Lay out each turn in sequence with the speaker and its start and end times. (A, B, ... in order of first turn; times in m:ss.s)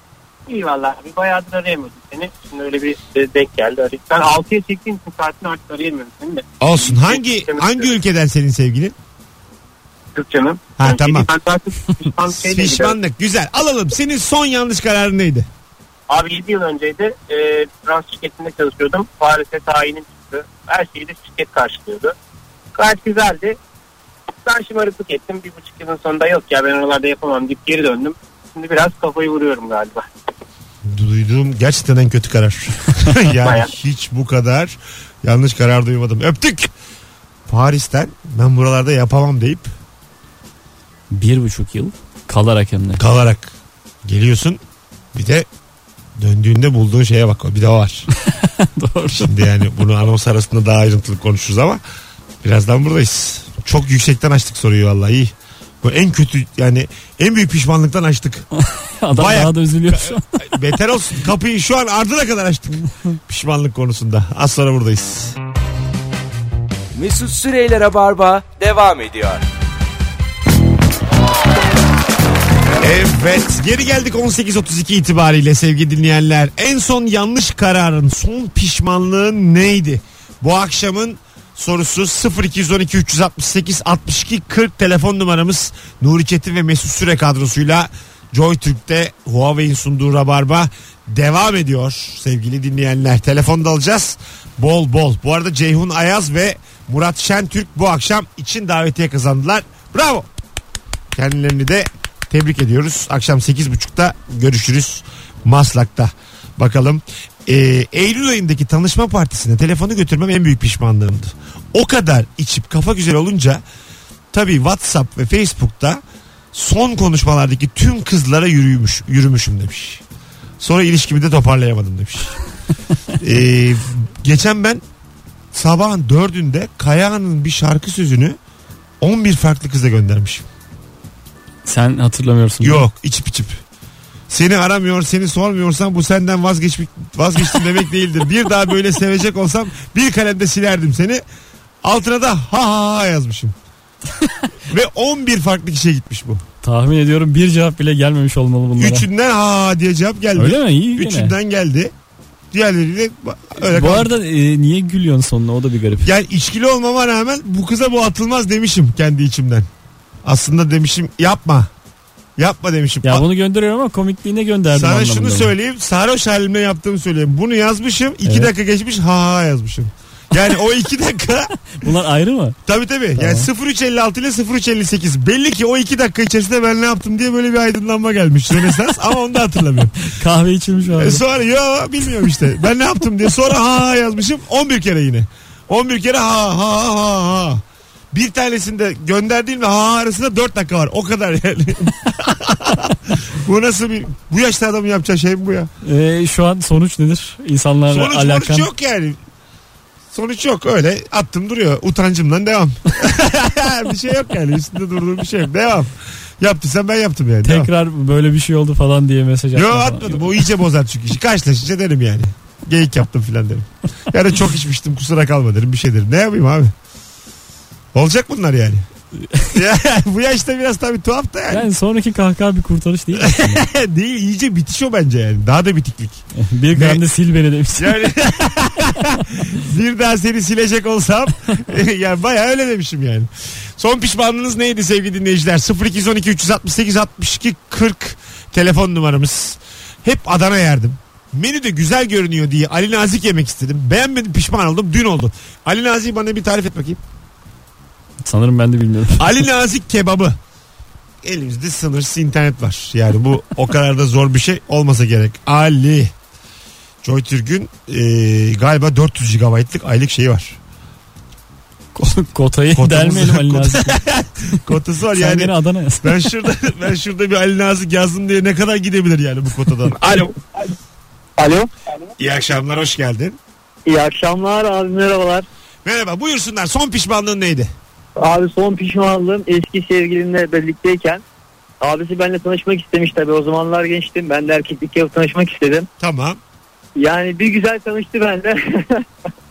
0:00.5-0:07.9 A
0:06.6-0:09.0 B
0:10.1-0:13.0 A
0:10.8-0:11.3 B
0:12.4-0:15.5 B
0:16.1-0:22.1 A
0:22.7-0:23.6 A
0:24.4-0:30.1 A
0:30.8-0:36.7 B
0:33.4-0:33.7 A
0:37.5-0:39.7 B
0:41.1-0:43.0 C
0:43.0-0:43.5 B
0:44.0-0:44.6 B
0:45.1-0:45.5 B
0:46.2-0:48.1 B
0:48.2-0:49.3 C
0:49.1-0:51.8 B
0:52.4-0:58.4 B
0:58.6-1:00.2 C
0:59.1-1:05.4 B
1:06.9-1:09.4 D
1:12.8-1:40.3 B
1:41.1-1:53.6 B
1:54.3-1:56.0 B
1:56.5-2:00.0 B
2:00.6-2:02.4 B
2:03.2-2:04.8 B
2:05.5-2:08.4 B
2:09.0-2:10.4 B
2:11.6-2:12.8 C
2:12.6-2:13.6 B
2:14.3-2:21.2 B
2:21.8-2:23.5 B
2:24.7-2:26.4 B
2:26.6-2:29.0 C
2:28.8-2:31.9 B
2:30.4-2:31.3 C
2:32.5-2:34.1 B
2:33.7-2:36.1 C
2:36.0-2:39.7 B
2:40.2-2:41.7 B
2:42.4-2:43.2 B
2:43.0-2:45.5 C
2:44.7-2:51.5 B
2:51.7-2:52.6 C
2:52.7-3:00.0 B
2:53.2-2:53.5 C
3:00.0-3:01.2 C
3:01.0-3:15.7 B
3:15.8-3:18.7 C
3:17.9-3:19.2 B
3:20.1-3:27.7 B
3:27.4-3:30.4 C
3:29.5-3:36.7 B
3:37.9-3:38.8 B
3:39.5-3:41.7 B
3:41.5-3:43.7 C
3:43.2-3:46.2 B
3:46.4-3:48.1 C
3:46.7-3:47.0 B
3:47.8-4:07.0 B
4:08.2-4:09.3 C
4:09.2-4:10.4 B
4:11.2-4:16.1 B
4:17.0-4:20.6 B
4:22.0-4:24.0 C
4:22.8-4:25.5 B
4:25.1-4:26.3 C
4:26.0-4:30.3 B
4:31.4-4:31.7 E
4:32.2-4:33.4 B
4:33.9-4:35.5 E
4:35.8-4:37.7 B
4:38.2-4:41.2 E
4:41.8-4:45.9 E
4:46.0-4:46.4 B
4:47.0-4:49.0 E